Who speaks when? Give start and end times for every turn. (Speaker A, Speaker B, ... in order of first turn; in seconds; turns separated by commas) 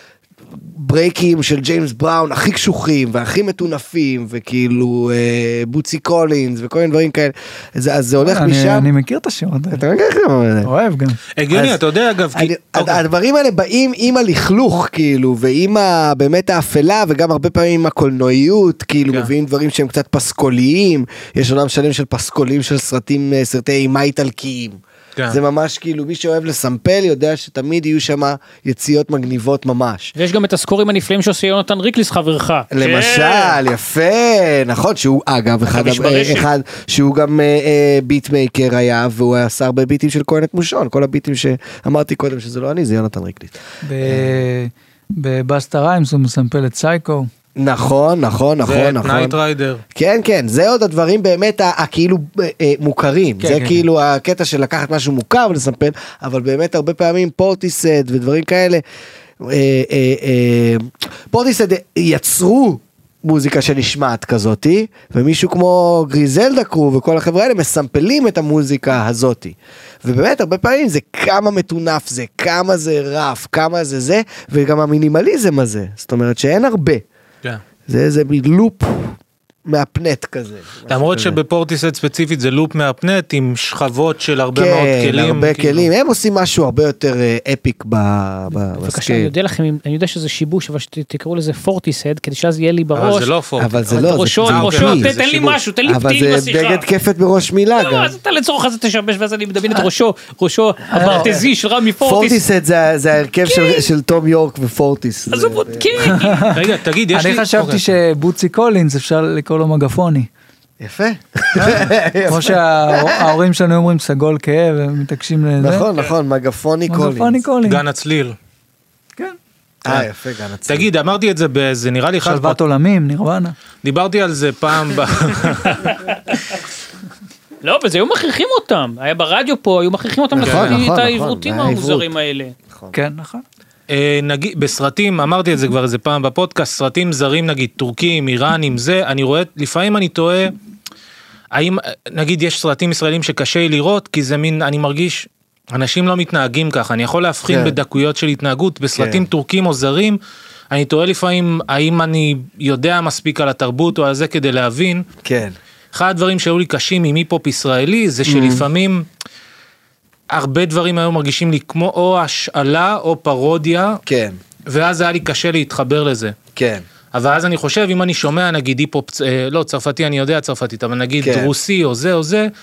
Speaker A: 0.5-8.9, Speaker B: 8.2-9.8, Speaker A: 9.7-10.7, Speaker B: 10.7-11.2, Speaker C: 11.4-13.0, Speaker A: 11.5-11.8, Speaker A: 12.3-30.1, Speaker D: 30.2-33.6, Speaker A: 32.7-44.4, Speaker D: 35.7-36.5, Speaker B: 43.8-47.3, Speaker A: 47.6-49.4, Speaker C: 48.6-49.8, Speaker A: 49.9-58.8, Speaker B: 53.4-53.8, Speaker A: 59.4-77.0, Speaker A: 77.9-81.4, Speaker C: 80.9-85.9, Speaker A: 84.5-89.3, Speaker D: 88.8-93.3, Speaker C: 92.9-95.6, Speaker A: 93.6-95.1, Speaker D: 93.9-96.9, Speaker A: 95.9-98.2, Speaker D: 97.8-102.4, Speaker B: 100.9-101.3, Speaker A: 101.0-101.4, Speaker A: 102.0-106.1, Speaker D: 103.5-103.9, Speaker D: 105.3-106.6, Speaker B: 106.0-106.6, Speaker C: 106.4-107.9, Speaker B: 107.1-110.3, Speaker A: 110.8-113.4, Speaker B: 111.5-115.9, Speaker A: 115.6-117.4, Speaker B: 116.9-117.8, Speaker C: 117.6-118.4, Speaker A: 119.8-120.9, Speaker C: 120.7-122.6, Speaker B: 122.2-123.5, Speaker C: 123.8-126.0, Speaker D: 125.9-126.4, Speaker D: 127.6-132.5, Speaker A: 130.3-132.1, Speaker C: 130.4-130.7, Speaker B: 132.9-133.4, Speaker C: 133.9-140.6, Speaker C: 141.5-150.2, Speaker A: 147.5-147.8, Speaker A: 148.9-149.2, Speaker C: 150.7-155.1, Speaker A: 155.2-155.6, Speaker C: 155.9-159.1, Speaker A: 158.3-158.7, Speaker C: 160.3-164.0, Speaker A: 164.1-164.4, Speaker C: 164.7-166.4, Speaker A: 166.6-166.8, Speaker C: 167.1-172.5, Speaker A: 171.2-171.5